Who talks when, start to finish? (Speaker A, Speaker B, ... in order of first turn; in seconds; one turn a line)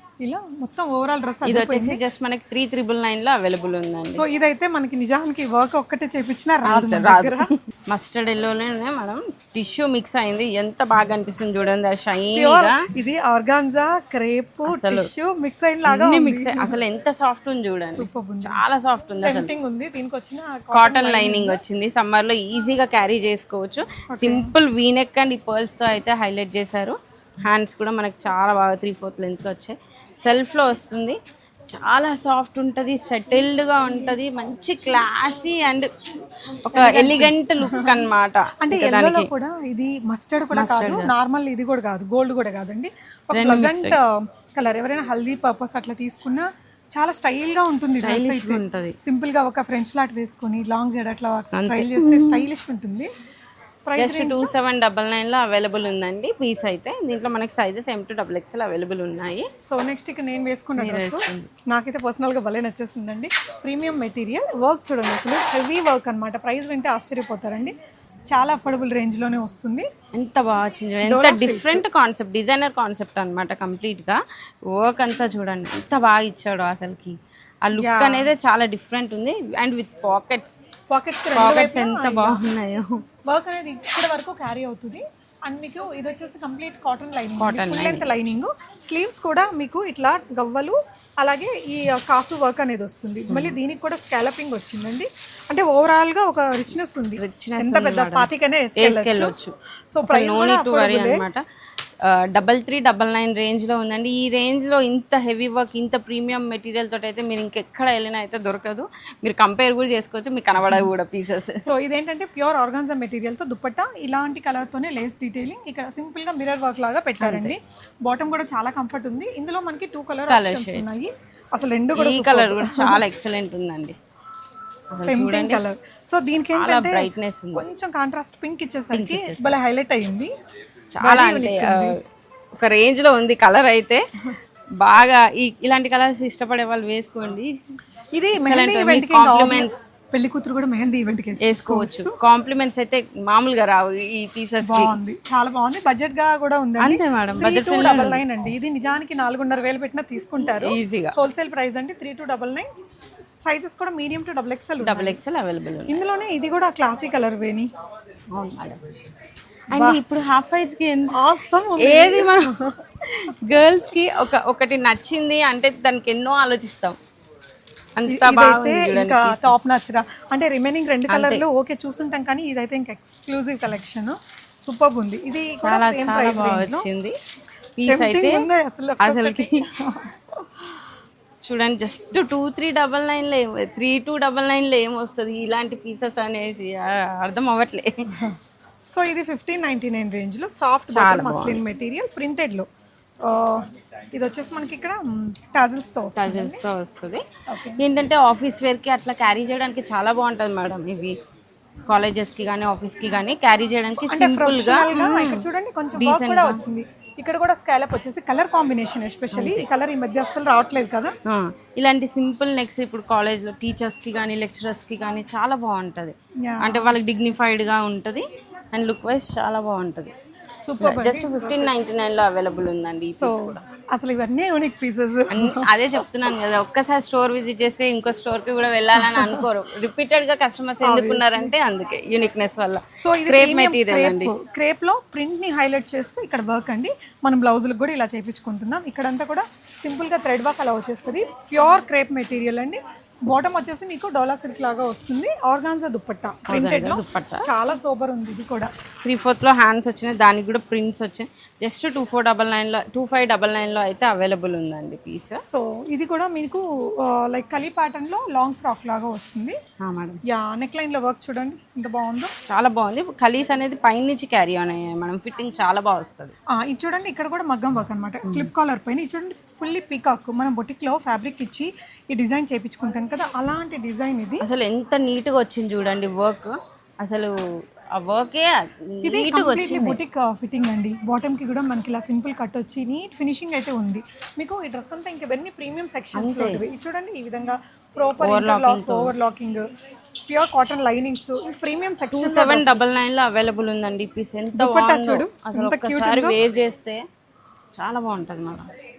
Speaker A: 0.2-2.0
Speaker B: 1.4-4.2
Speaker A: 4.1-7.5
Speaker B: 6.6-12.8
Speaker A: 12.3-16.8
Speaker B: 14.7-15.1
Speaker B: 15.9-19.5
Speaker A: 17.9-18.6
Speaker A: 19.2-21.6
Speaker B: 20.7-31.2
Speaker A: 24.1-24.5
Speaker B: 31.7-35.9
Speaker B: 36.6-39.3
Speaker A: 36.7-38.0
Speaker A: 38.6-53.1
Speaker B: 40.5-41.1
Speaker B: 43.3-44.0
Speaker B: 47.9-48.9
Speaker B: 51.5-52.5
Speaker A: 53.9-54.5
Speaker B: 53.9-59.4
Speaker A: 59.7-67.7
Speaker B: 60.8-61.5
Speaker A: 68.3-69.9
Speaker B: 70.1-74.2
Speaker A: 71.0-71.8
Speaker B: 74.7-80.6
Speaker A: 77.7-78.3
Speaker A: 80.9-82.4
Speaker B: 81.3-83.0
Speaker A: 83.3-99.3
Speaker B: 87.4-88.3
Speaker B: 93.3-93.6
Speaker B: 97.2-99.5
Speaker A: 99.9-101.2
Speaker B: 100.0-101.4
Speaker B: 102.0-111.7
Speaker A: 111.6-123.0
Speaker B: 117.2-117.5
Speaker B: 120.3-121.0
Speaker B: 122.0-124.0
Speaker B: 124.9-125.6
Speaker A: 125.0-130.3
Speaker B: 126.5-127.6
Speaker B: 128.9-129.6
Speaker B: 130.9-131.9
Speaker A: 131.0-132.0
Speaker B: 132.6-134.0
Speaker B: 134.8-137.5
Speaker A: 138.1-142.2
Speaker B: 138.4-139.8
Speaker B: 141.4-145.0
Speaker A: 144.7-152.7
Speaker B: 146.8-148.2
Speaker B: 150.6-151.1
Speaker A: 153.4-155.2
Speaker B: 154.8-156.0
Speaker A: 155.9-157.7
Speaker B: 158.3-158.8
Speaker B: 159.7-161.2
Speaker A: 159.7-160.0
Speaker A: 161.2-162.8
Speaker B: 161.8-167.0
Speaker B: 168.0-169.5
Speaker A: 168.1-176.8
Speaker B: 171.1-171.4
Speaker B: 175.6-177.1
Speaker B: 177.8-178.5
Speaker A: 177.9-180.7
Speaker B: 179.0-179.7
Speaker B: 181.4-188.1
Speaker A: 188.9-192.7
Speaker B: 190.9-191.6
Speaker A: 193.2-196.6
Speaker B: 196.2-197.2
Speaker A: 197.5-197.8
Speaker B: 197.8-201.2
Speaker B: 201.9-206.6
Speaker A: 204.0-211.1
Speaker B: 209.3-209.7
Speaker B: 211.2-220.1
Speaker A: 216.4-217.0
Speaker A: 220.6-221.7
Speaker B: 220.8-223.6
Speaker A: 223.2-226.0
Speaker B: 225.3-234.3
Speaker A: 228.9-229.5
Speaker A: 230.8-231.5
Speaker A: 233.0-248.7
Speaker B: 246.5-247.4
Speaker B: 249.0-255.4
Speaker A: 255.5-259.6
Speaker B: 259.8-260.2
Speaker A: 260.3-262.3
Speaker B: 262.5-266.3
Speaker A: 266.5-274.4
Speaker B: 274.4-277.4
Speaker B: 277.9-280.0
Speaker A: 279.0-289.6
Speaker B: 286.1-286.6
Speaker B: 288.2-289.1
Speaker A: 290.3-292.9
Speaker B: 292.1-297.0
Speaker A: 294.6-296.4
Speaker B: 297.8-298.7